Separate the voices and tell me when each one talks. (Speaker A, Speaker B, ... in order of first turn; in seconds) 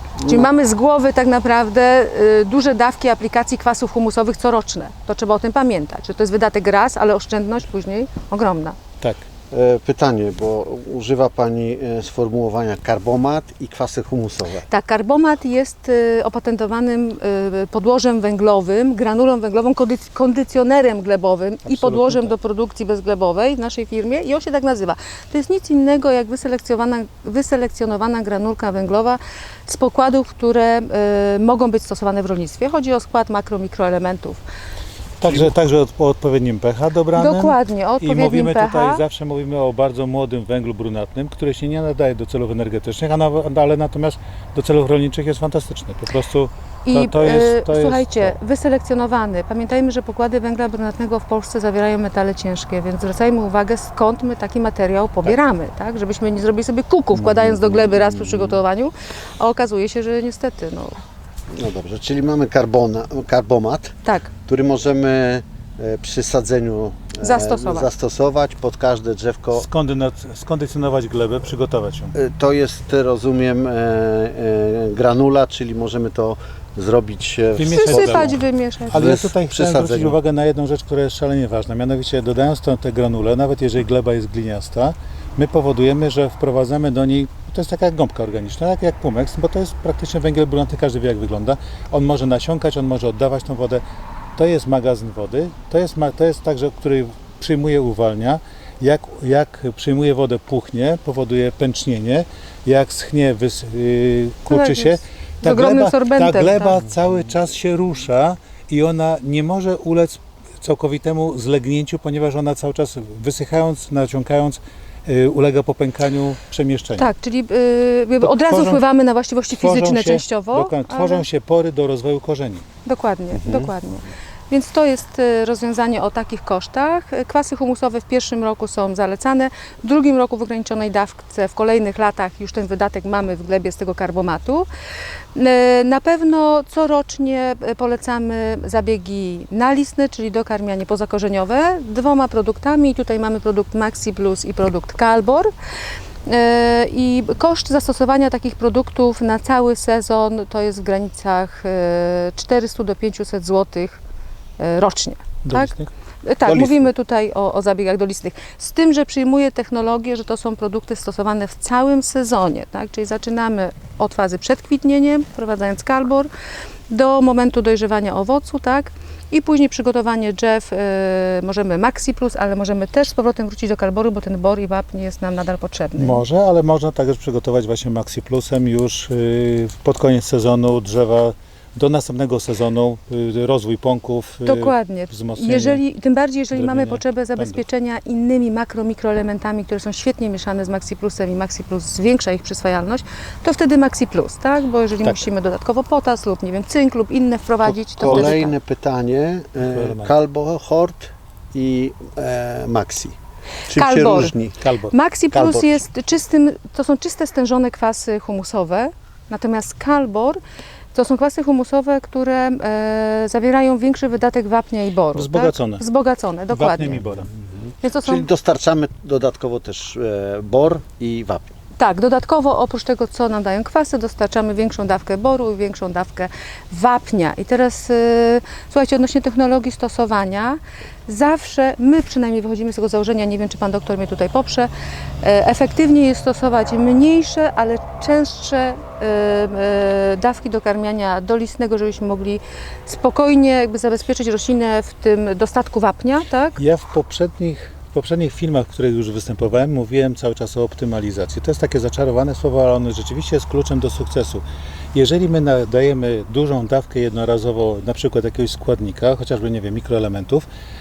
Speaker A: 0.2-0.5, 9.5-14.6, 57.1-58.6, 61.5-63.9, 64.5-69.7, 72.1-78.3, 78.9-80.2, 123.3-123.7, 198.0-203.2, 203.7-204.6, 205.3-205.8, 218.0-221.5
Speaker B: 0.2-8.8, 14.7-34.4, 37.1-39.0, 46.9-61.0, 64.0-64.3, 67.2-67.9, 77.7-79.0, 104.5-106.8, 117.0-121.2, 122.8-134.7, 135.3-145.5, 146.2-154.0, 154.6-166.3, 166.9-176.2, 184.4-198.5, 203.7-204.3, 204.9-210.4, 210.9-217.0, 217.8-218.3, 221.8-234.7, 235.2-246.6
Speaker C: 21.6-22.3, 35.2-48.4, 69.5-72.1, 77.5-93.8, 94.4-117.1, 118.2-118.8, 119.6-122.6, 155.4-155.9, 156.4-156.8, 176.0-185.8, 186.5-187.6, 198.0-198.4, 199.6-200.1, 204.6-204.9, 215.1-215.8, 216.5-217.3, 246.6-260.4